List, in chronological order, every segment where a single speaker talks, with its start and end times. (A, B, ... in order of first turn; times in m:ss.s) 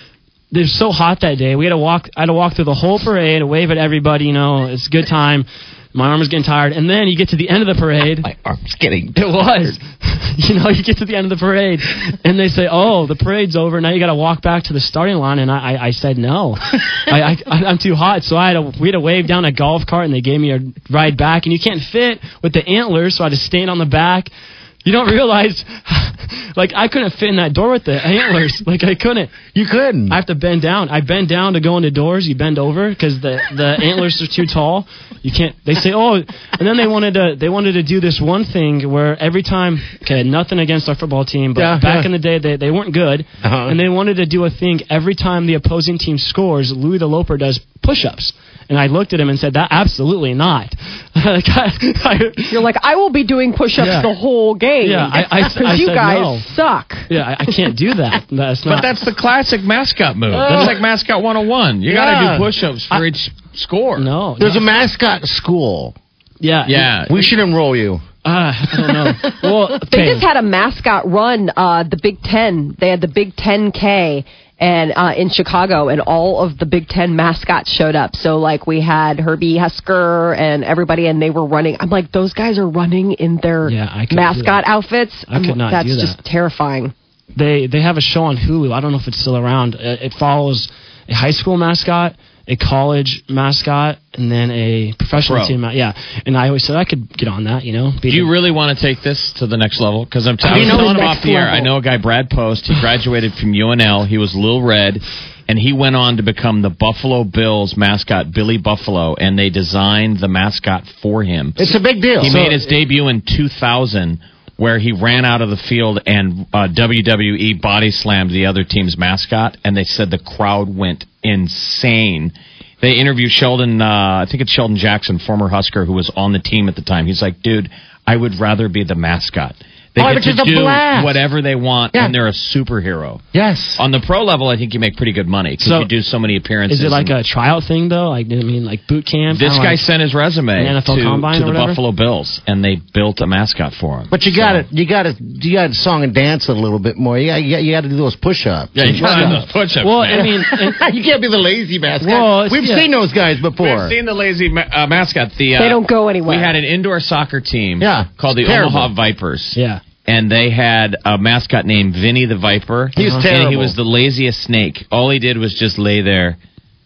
0:00.5-0:08.3 A
0:08.2-0:09.8 B
0:09.2-0:24.3 A
0:24.8-0:29.4 A
0:29.5-0:30.2 B
0:30.1-0:52.7 A
0:41.6-0:42.1 B
0:43.4-0:43.8 B
0:52.5-0:57.6 C
0:53.8-0:54.1 A
0:54.8-0:56.5 A
0:57.1-0:58.9 A
0:58.7-1:04.1 D
1:00.3-1:00.7 B
1:00.4-1:00.8 A
1:01.9-1:02.5 B
1:04.0-1:04.6 A
1:04.4-1:06.0 B
1:06.4-1:07.0 A
1:06.6-1:07.3 D
1:07.1-1:08.0 B
1:08.2-1:10.3 A
1:09.9-1:26.9 C
1:23.6-1:24.7 A
1:25.3-1:26.2 A
1:27.4-1:38.4 A
1:35.2-1:35.6 D
1:38.1-2:13.2 D
1:40.4-1:41.6 B
1:40.6-1:41.6 C
1:51.6-1:52.5 B
2:10.0-2:11.2 B
2:13.3-2:13.8 B
2:13.8-2:17.2 D
2:15.6-2:15.9 A
2:16.7-2:19.9 A
2:19.3-2:24.7 D
2:20.5-2:21.8 A
2:24.1-2:29.5 B
2:28.7-2:30.3 D
2:29.0-2:30.8 A
2:30.1-2:34.0 B
2:32.0-2:32.9 A
2:33.6-2:46.4 D
2:35.6-2:36.6 C
2:37.8-2:38.9 B
2:39.5-2:39.8 A
2:43.0-2:43.8 B